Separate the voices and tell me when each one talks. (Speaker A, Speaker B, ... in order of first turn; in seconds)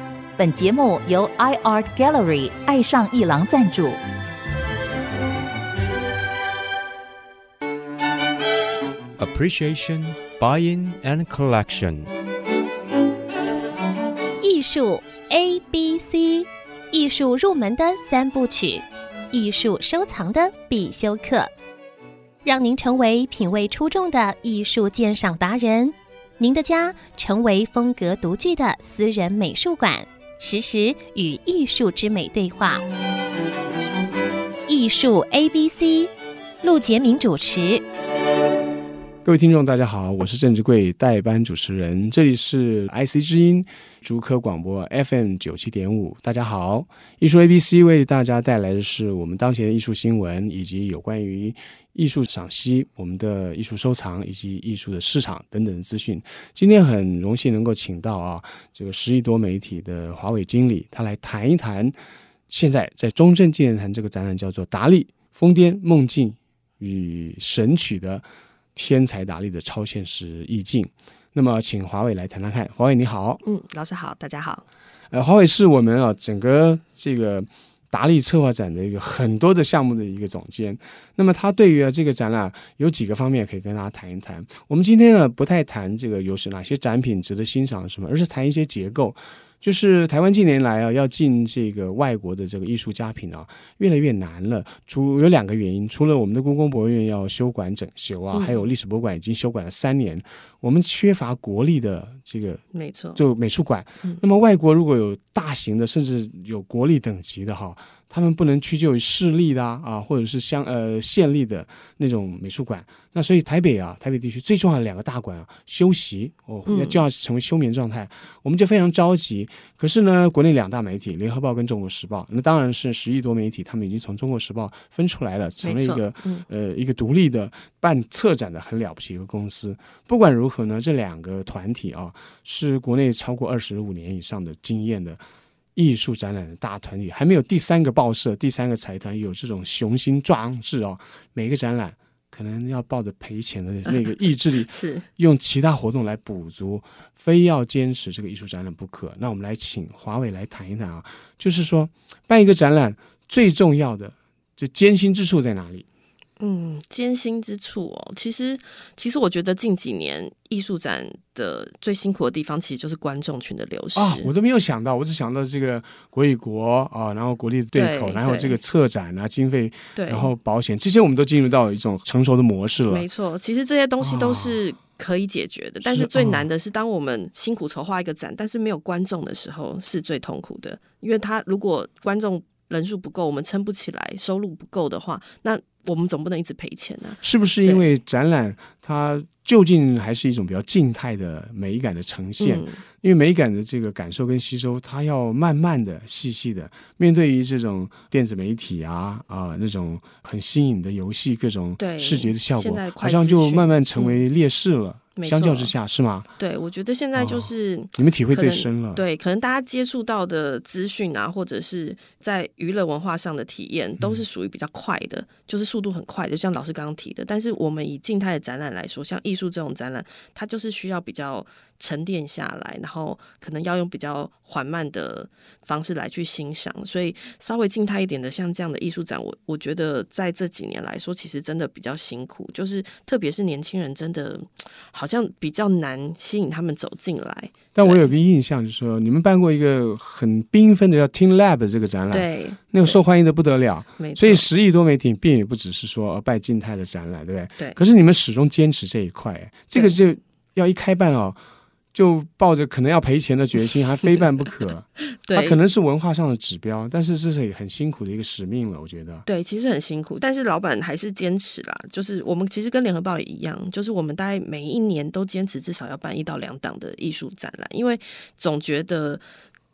Speaker A: 0.4-4.0
Speaker B: 9.2-12.1
Speaker C: 14.4-21.5, 22.4-32.8, 34.7-36.1, 36.6-37.8
Speaker D: 39.2-62.0, 62.5-73.4, 75.1-102.6, 103.2-135.2, 135.8-155.9, 164.0-173.1, 174.0-174.6, 175.8-176.5, 187.2-206.3, 207.2-209.0, 237.8-251.4, 251.9-259.2
Speaker E: 73.4-74.7, 98.3-98.7, 102.7-103.2, 116.7-117.0, 125.6-126.5, 144.7-145.1, 156.4-164.3, 167.7-168.6, 169.9-170.3, 172.9-187.9, 192.4-192.8, 201.8-204.2, 205.2-205.7, 206.4-238.1, 242.1-243.0, 244.0-244.5, 255.1-255.6, 259.3-269.2